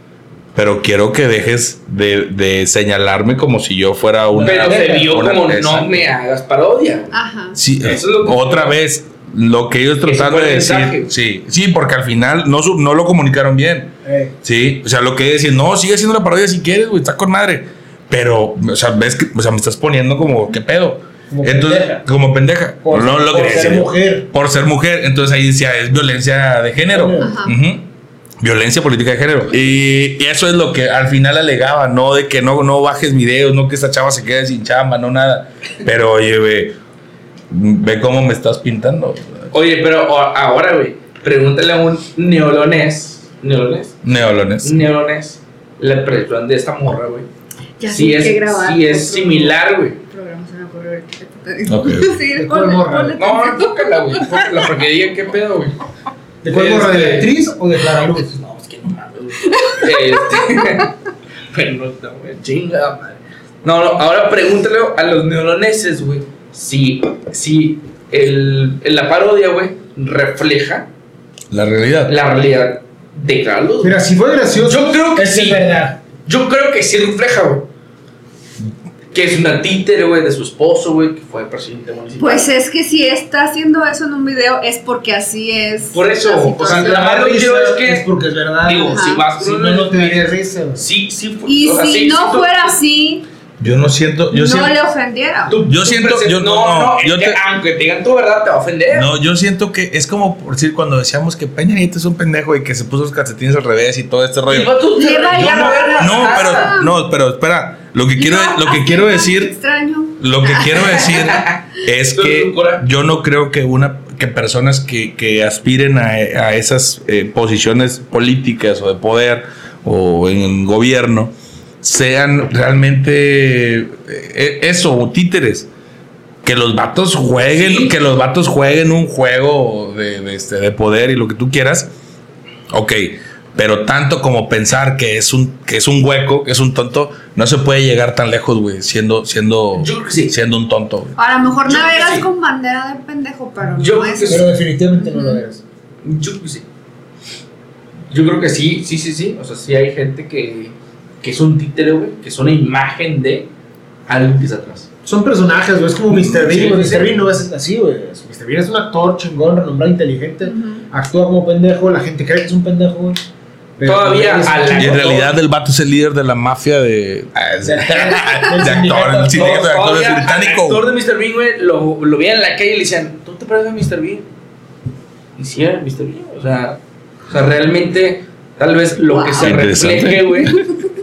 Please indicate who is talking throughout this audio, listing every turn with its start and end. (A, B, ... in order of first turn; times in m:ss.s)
0:00.6-0:06.1 A
0:04.3-0:05.2 B
0:04.4-0:07.1 C
0:07.1-0:07.6 D
0:07.6-0:27.9 A
0:07.8-0:08.8 C
0:10.0-0:11.1 C
0:14.0-0:14.3 B
0:21.3-0:22.0 B
0:22.8-0:24.3 B
0:26.9-0:27.4 B
0:27.2-0:27.6 D
0:28.4-0:36.8 A
0:37.5-0:39.5 A
0:39.5-0:47.3 C
0:44.0-0:44.8 A
0:47.8-0:54.4 D
0:47.9-0:50.0 C
0:51.7-0:52.2 A
0:52.3-0:53.2 B
0:53.2-0:55.8 C
0:56.4-0:58.4 B
0:56.5-0:57.3 C
0:58.3-1:00.9 C
0:59.5-1:00.6 D
1:01.5-1:10.9 C
1:11.5-1:12.1 A
1:12.1-1:14.0 C
1:13.8-1:16.0 B
1:14.6-1:15.7 C
1:16.3-1:17.7 C
1:19.1-1:22.5 C
1:22.2-1:27.0 D
1:25.9-1:28.1 C
1:26.6-1:30.9 B
1:28.6-1:32.8 C
1:28.9-1:29.2 D
1:31.5-1:33.3 D
1:33.6-1:34.7 A
1:34.3-1:35.6 D
1:35.5-1:39.1 C
1:35.7-1:37.4 A
1:38.9-1:44.7 A
1:44.5-1:46.8 C
1:45.0-1:46.9 D
1:45.3-1:49.5 A
1:48.2-1:51.0 D
1:50.2-2:05.7 A
1:51.0-1:52.8 C
2:06.4-2:11.9 A
2:07.5-2:08.0 C
2:12.7-2:21.2 A
2:19.8-2:20.3 C
2:21.2-2:25.4 D
2:21.7-2:22.3 C
2:23.7-2:24.5 C
2:24.3-2:25.6 B
2:26.0-2:26.6 C
2:28.1-2:33.5 C
2:34.1-2:34.9 C
2:35.0-2:43.2 B
2:36.1-2:37.2 C
2:40.4-2:40.8 D
2:43.8-2:45.1 B
2:43.8-2:45.3 C
2:44.8-2:50.8 A
2:47.6-2:49.7 B
2:47.9-2:54.3 C
2:55.4-3:00.6 C
2:59.1-2:59.6 D
2:59.4-3:00.5 A